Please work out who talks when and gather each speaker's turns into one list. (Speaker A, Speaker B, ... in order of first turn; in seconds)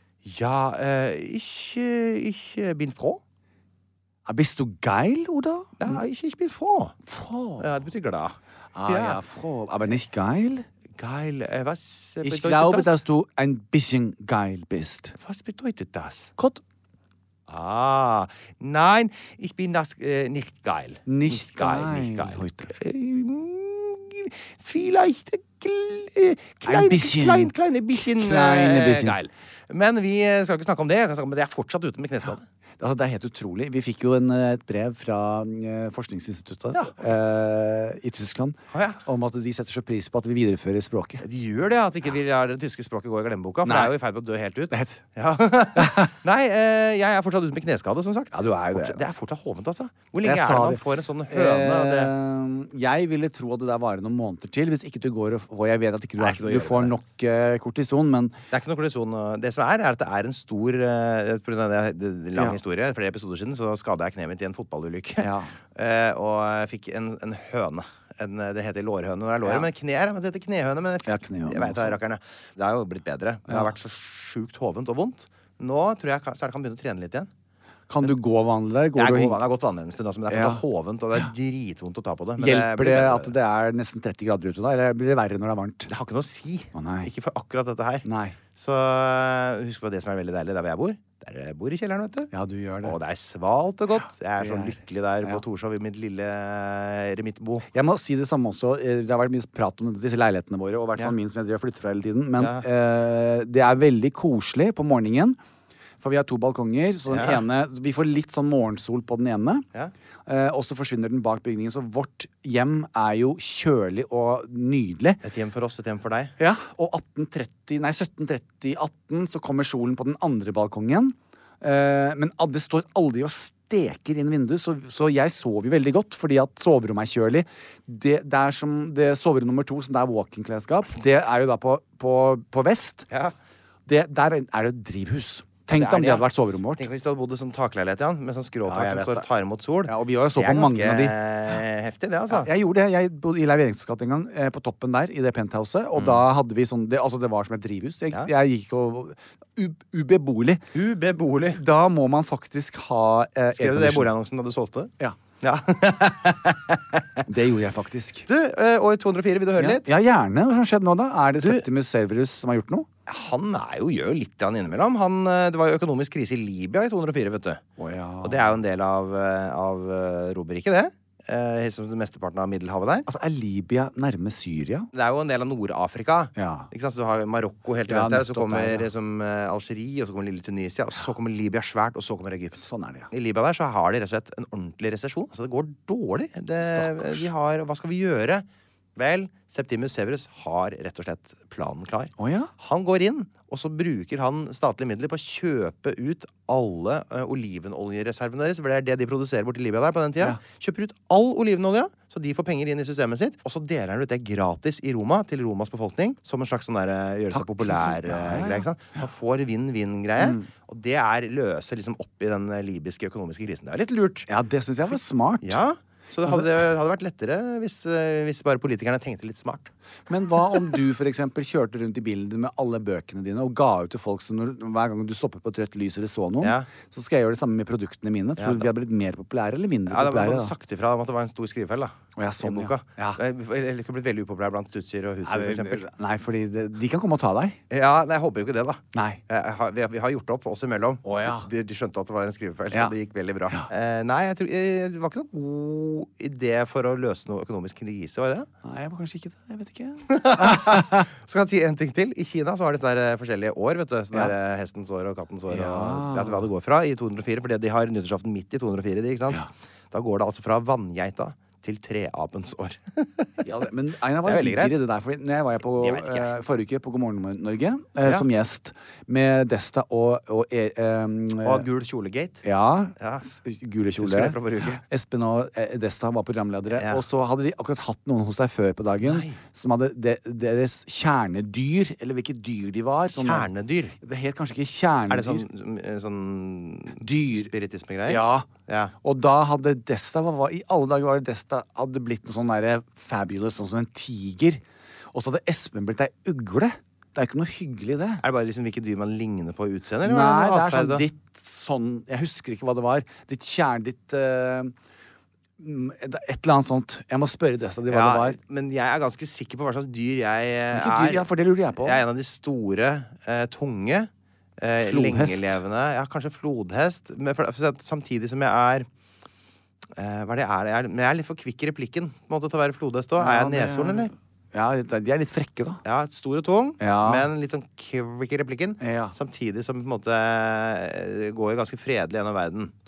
Speaker A: 0.2-3.2, 5.8-6.9, 7.6-8.3, 8.9-9.2, 11.0-13.0, 15.2-16.3, 17.5-32.4, 36.7-37.0, 38.7-39.0, 41.2-52.1, 56.2-57.0, 58.5-77.3, 78.9-83.3, 85.9-92.3, 92.8-97.7, 102.3-102.7, 107.1-107.4, 115.2-116.3, 135.7-142.5, 145.9-146.2, 150.7-151.6, 153.5-157.2, 158.3-159.8, 161.4-161.6, 163.1-167.6, 168.2-173.1, 174.9-188.4, 188.9-214.3, 215.4-219.7, 226.4-226.7, 228.4-228.7, 229.9-235.8, 237.7-248.5, 250.1-263.4, 264.2-264.8, 265.7-266.4, 271.4-272.4, 273.0-273.3, 274.0-274.8, 276.7-277.0, 279.0-279.4, 283.1-283.9, 285.1-288.9, 298.2-301.0, 307.9-318.9, 320.0-324.1, 325.8-332.7
Speaker B: 4.2-5.9, 7.0-7.7, 8.7-10.7, 12.2-15.1, 21.1-22.7, 26.6-29.2, 32.8-41.2, 43.6-43.9, 44.7-45.0, 45.8-46.1, 48.3-49.1, 50.2-58.4, 65.2-65.5, 71.0-72.0, 77.9-79.4, 80.3-80.6, 82.4-85.9, 86.7-87.1, 88.0-88.4, 92.3-93.0, 94.4-95.4, 97.7-105.4, 106.0-109.6, 110.2-115.2, 116.4-133.1, 133.9-136.9, 138.7-139.3, 139.8-141.1, 142.3-150.6, 151.5-154.1, 157.2-158.3, 159.6-162.9, 167.8-168.5, 173.1-174.9, 176.3-176.7, 177.9-178.9, 182.6-183.1, 186.6-187.3, 192.2-192.5, 207.3-208.7, 210.2-210.4, 214.3-215.6, 216.2-216.5, 220.1-230.5, 232.2-233.2, 235.2-237.6, 238.9-239.2, 241.0-241.5, 248.6-251.1, 255.5-256.5, 263.4-271.6, 272.4-283.5, 284.0-285.4, 287.0-287.5, 288.1-288.5, 289.0-294.6, 295.1-298.2, 300.0-304.7, 305.6-308.4, 310.7-312.0, 314.8-315.6, 323.2-325.8, 326.8-327.3, 328.8-329.1